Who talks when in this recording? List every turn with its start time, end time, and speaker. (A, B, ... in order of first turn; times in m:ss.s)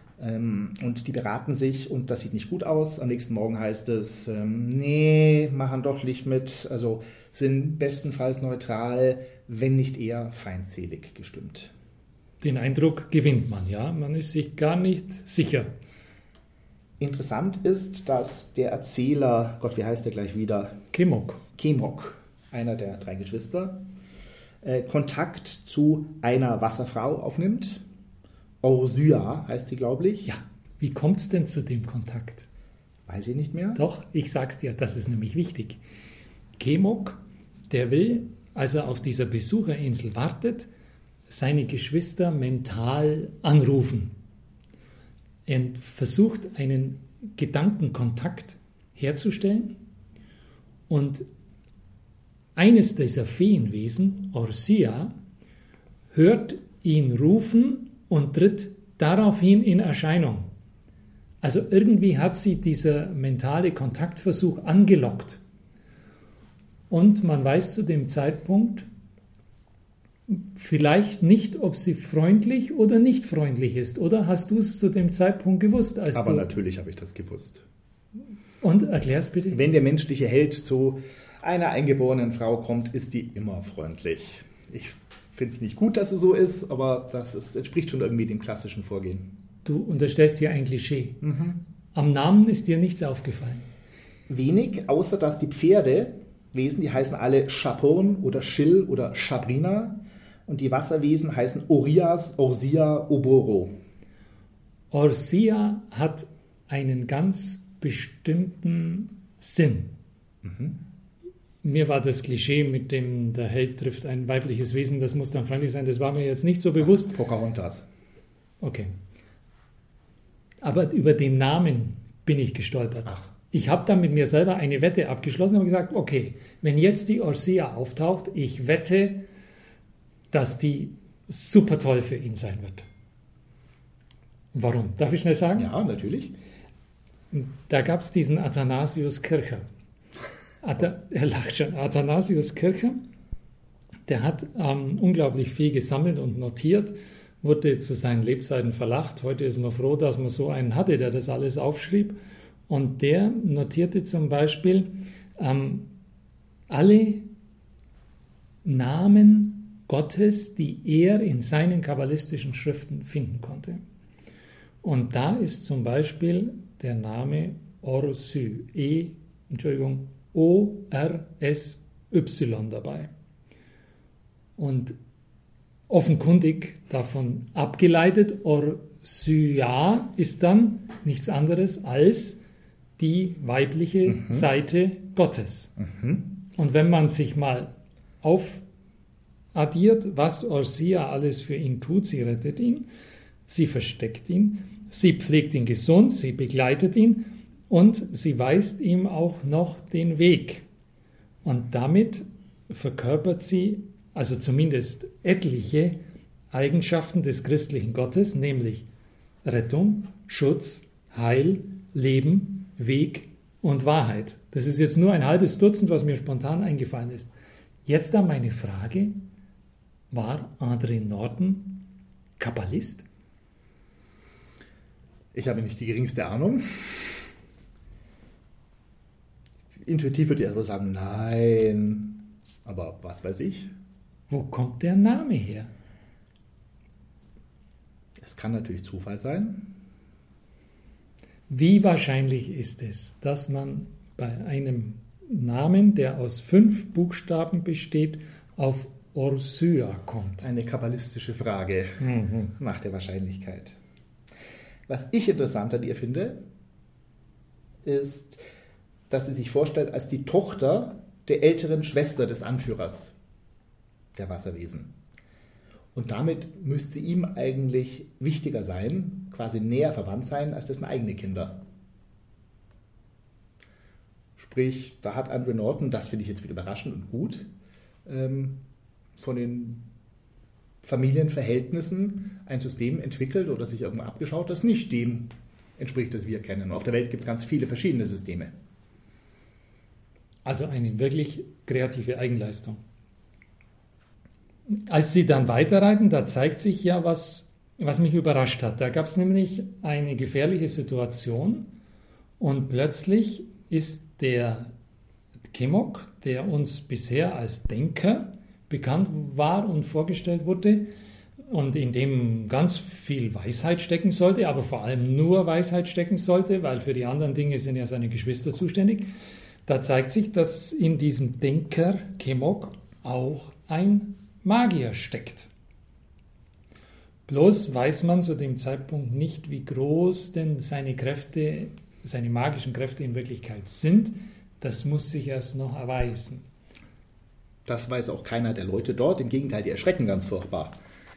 0:00.2-0:11.7 A
0:12.4-0:15.7 B
0:17.0-0:20.8 A
0:20.9-0:21.4 B
0:21.6-0:23.8 A
0:24.6-0:27.8 A
0:28.6-0:30.3 A
0:30.2-0:32.5 B
0:33.1-0:33.8 A
0:33.8-0:35.8 B
0:36.6-0:40.7 B
0:41.3-0:44.1 B
0:45.5-0:49.8 B
0:50.9-0:51.2 B
0:52.6-0:55.1 B
0:56.1-1:00.5 B
1:01.4-1:05.4 B
1:06.9-1:08.9 B
1:10.3-1:16.5 B
1:16.1-1:17.6 A
1:18.6-1:19.7 B
1:19.5-1:29.3 A
1:29.6-1:31.2 B
1:31.2-1:31.6 A
1:31.9-1:33.7 B
1:34.3-1:43.7 A
1:44.9-1:49.9 B
1:50.4-1:50.8 A
1:51.6-1:57.2 B
1:56.8-1:57.9 A
1:58.6-1:58.9 B
2:00.6-2:09.2 B
2:10.3-2:12.9 B
2:14.5-2:15.7 B
2:15.6-2:16.3 A
2:17.3-2:19.6 B
2:20.6-2:23.0 B
2:24.1-2:35.9 B
2:36.7-2:37.3 B
2:38.6-2:43.8 B
2:44.8-2:53.1 B
2:54.6-2:55.0 B
2:55.9-3:02.4 B
3:03.0-3:05.8 B
3:04.1-3:04.5 A
3:05.8-3:06.3 A
3:06.5-3:07.7 B
3:08.2-3:08.6 B
3:09.5-3:12.9 B
3:13.5-3:20.6 B
3:21.4-3:26.0 B
3:26.5-3:28.9 B
3:29.4-3:37.3 B
3:37.9-3:39.2 B
3:40.1-3:43.0 B
3:45.3-3:47.3 A
3:49.8-3:53.7 A
3:54.3-3:55.7 B
3:58.2-3:59.8 A
4:01.5-4:10.4 B
4:10.4-4:13.8 A
4:12.0-4:12.5 B
4:14.9-4:16.4 A
4:17.8-4:18.4 A
4:19.1-4:23.1 A
4:24.2-4:24.9 A
4:25.9-4:31.6 A
4:34.4-4:37.5 A
4:38.1-4:38.6 A
4:39.2-4:39.9 A
4:40.8-4:48.5 A
4:50.4-4:52.8 B
4:54.7-5:01.7 B
5:02.4-5:04.7 B
5:05.5-5:10.9 B
5:11.5-5:19.1 B
5:19.7-5:25.5 B
5:27.3-5:36.4 B
5:37.7-5:40.8 A